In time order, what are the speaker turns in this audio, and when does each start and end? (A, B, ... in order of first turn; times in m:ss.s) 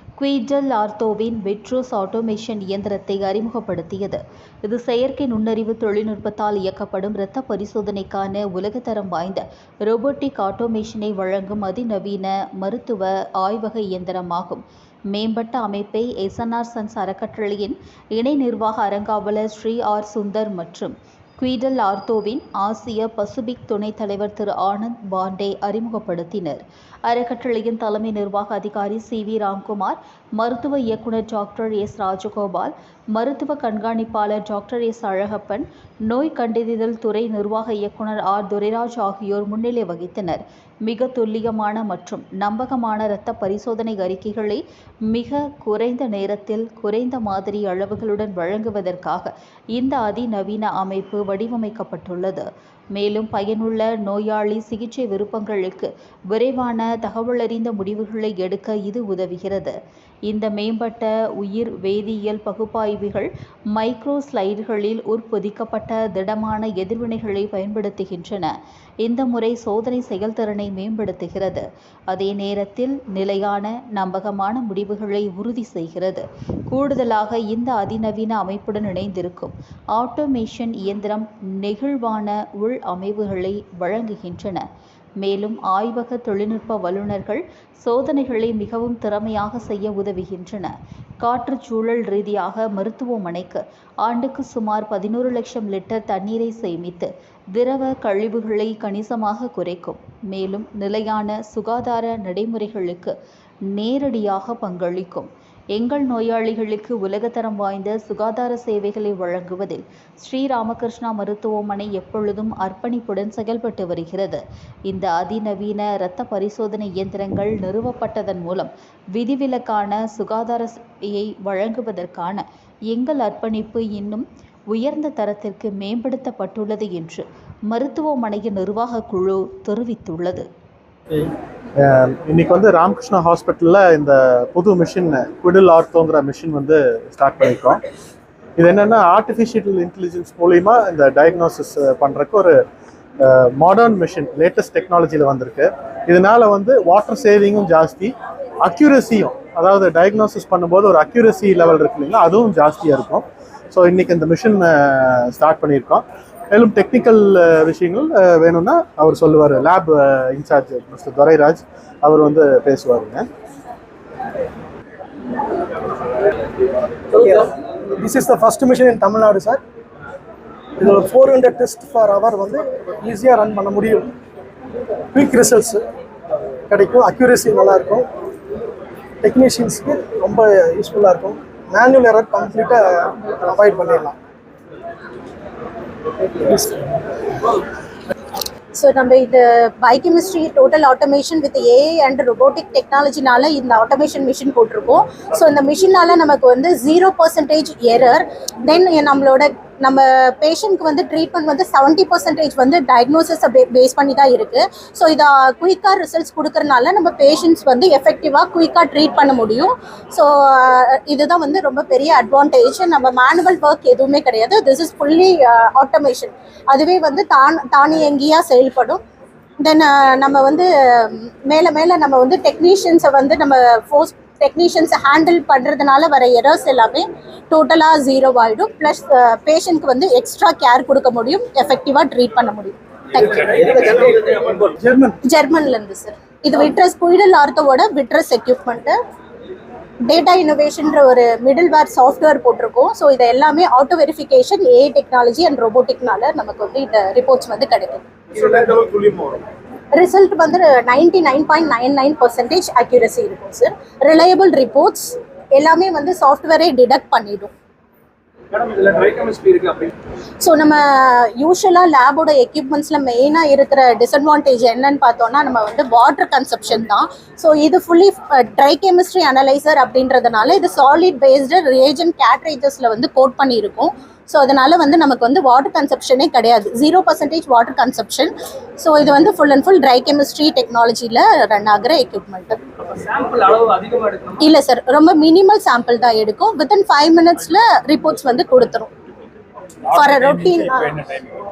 0:00.2-0:59.8 A
1:00.3-1:08.5 A
1:09.0-1:24.7 A
1:25.2-1:43.2 A
1:43.7-2:10.5 A
2:11.8-2:17.8 B
2:18.6-2:22.6 B
2:23.2-2:43.3 B
2:47.1-2:49.6 C
2:50.8-2:54.1 C
2:55.1-2:55.8 C
2:56.7-2:58.1 C
2:59.2-3:04.2 C
3:08.8-3:39.0 D
3:39.6-3:54.1 D
3:53.5-3:54.7 E
3:54.8-3:55.2 B
3:55.2-3:59.0 D
4:00.0-4:08.4 D
4:08.5-4:09.4 E
4:09.9-4:17.5 D
4:18.5-4:19.9 E
4:20.4-4:42.6 D
4:42.8-4:44.5 E
4:44.4-4:48.9 D
4:49.9-4:51.1 D